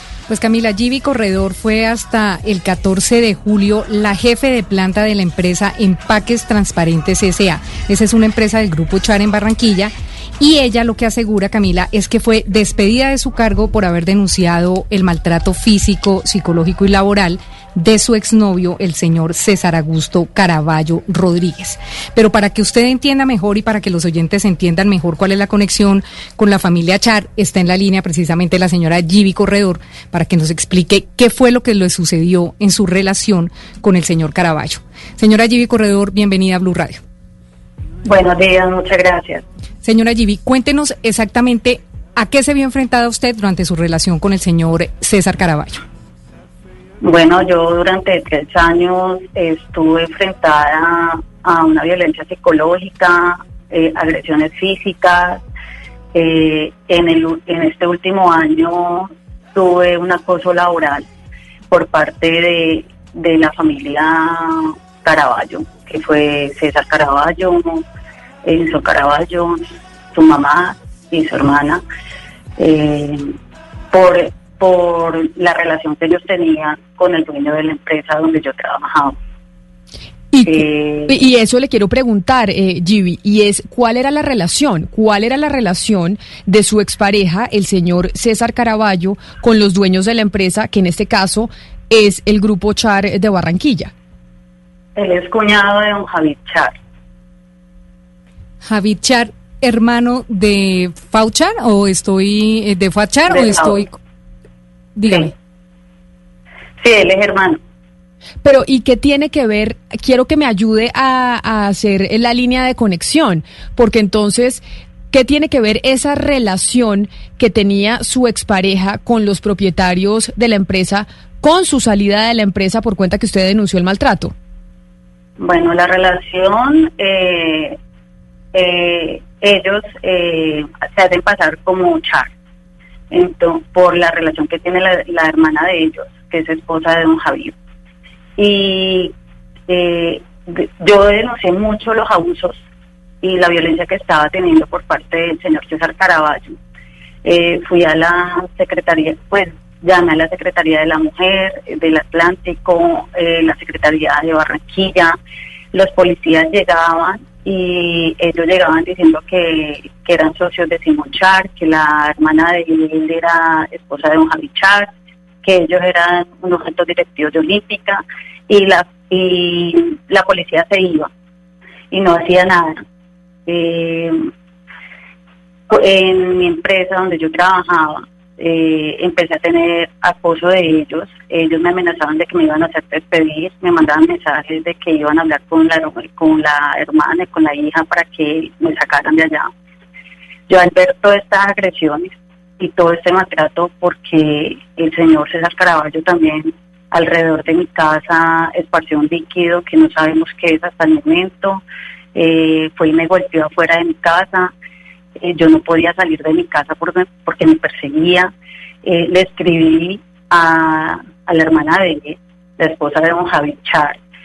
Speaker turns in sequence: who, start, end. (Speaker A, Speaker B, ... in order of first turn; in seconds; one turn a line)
Speaker A: 0.3-37.0
Speaker B: 38.0-39.4
Speaker A: 39.8-45.8
Speaker B: 47.0-55.4
Speaker B: 56.1-61.1
Speaker B: 61.7-67.8
Speaker B: 68.4-71.8
Speaker B: 72.6-73.3
Speaker B: 73.9-79.2
Speaker C: 80.3-93.9
Speaker B: 80.4-81.2
Speaker B: 95.0-96.8
Speaker A: 98.6-104.0
Speaker B: 103.3-103.8
Speaker A: 105.0-105.3
Speaker B: 106.8-107.6
Speaker C: 108.4-124.3
Speaker B: 125.4-127.8
Speaker B: 128.5-132.3
Speaker B: 133.1-137.6
Speaker B: 138.4-139.1
Speaker B: 139.7-142.6
Speaker B: 143.2-146.6
Speaker B: 147.2-155.2
Speaker B: 155.7-164.9
Speaker B: 165.4-171.1
Speaker B: 171.9-172.8
Speaker B: 173.5-174.3
Speaker B: 175.7-189.5
Speaker B: 190.5-201.6
Speaker B: 202.2-204.5
Speaker B: 205.2-208.3
Speaker B: 208.8-214.0